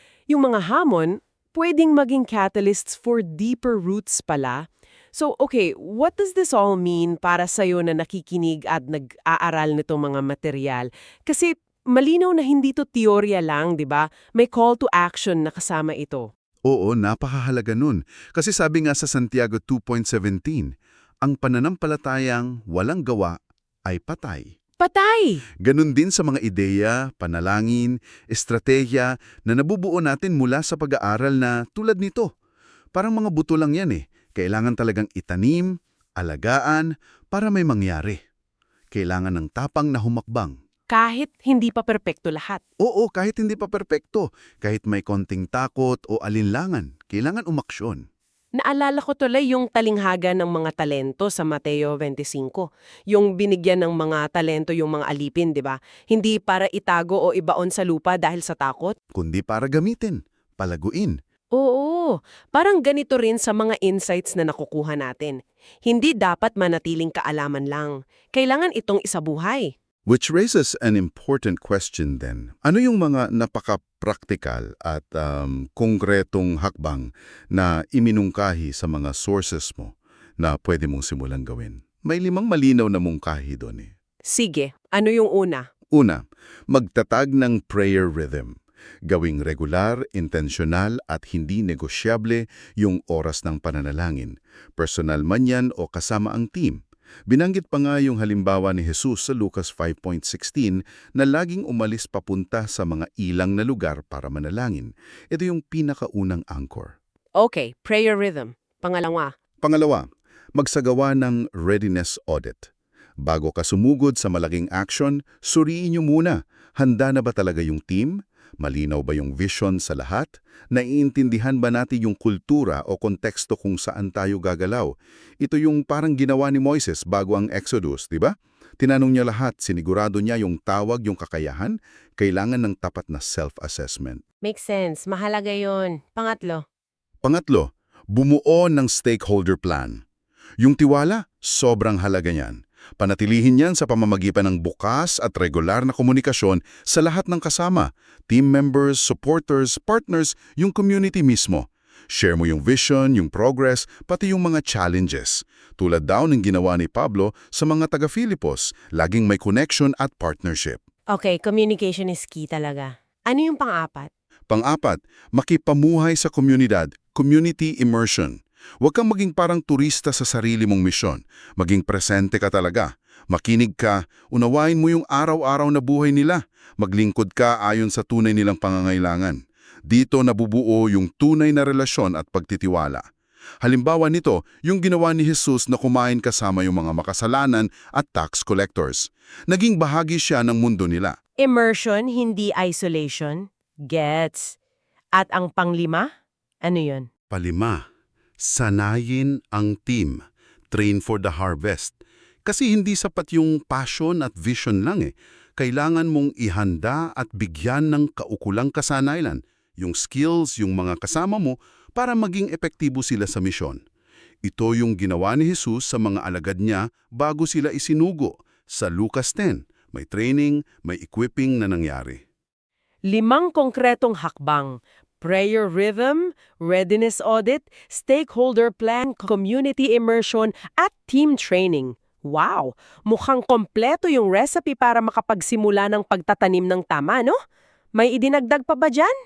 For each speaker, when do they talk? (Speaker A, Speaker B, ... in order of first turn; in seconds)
Speaker A: 0.3-16.3, 24.8-25.4, 40.9-42.6, 48.6-59.0, 61.6-69.7, 84.3-85.6, 107.4-109.3, 134.4-136.6, 161.1-164.1, 191.4-194.6, 195.2-196.1, 196.6-197.1, 223.1-237.3, 238.0-239.1
Speaker B: 16.6-20.7, 21.2-24.5, 25.6-32.3, 33.0-38.2, 38.9-40.6, 42.8-48.0, 59.1-61.1, 70.1-83.9, 85.9-88.5, 89.1-106.9, 109.6-110.0, 110.6-112.7, 113.2-134.2, 137.2-140.0, 140.6-160.8, 164.5-183.0, 183.6-191.2, 197.3-197.8, 198.4-200.2, 200.7-213.8, 214.4-222.2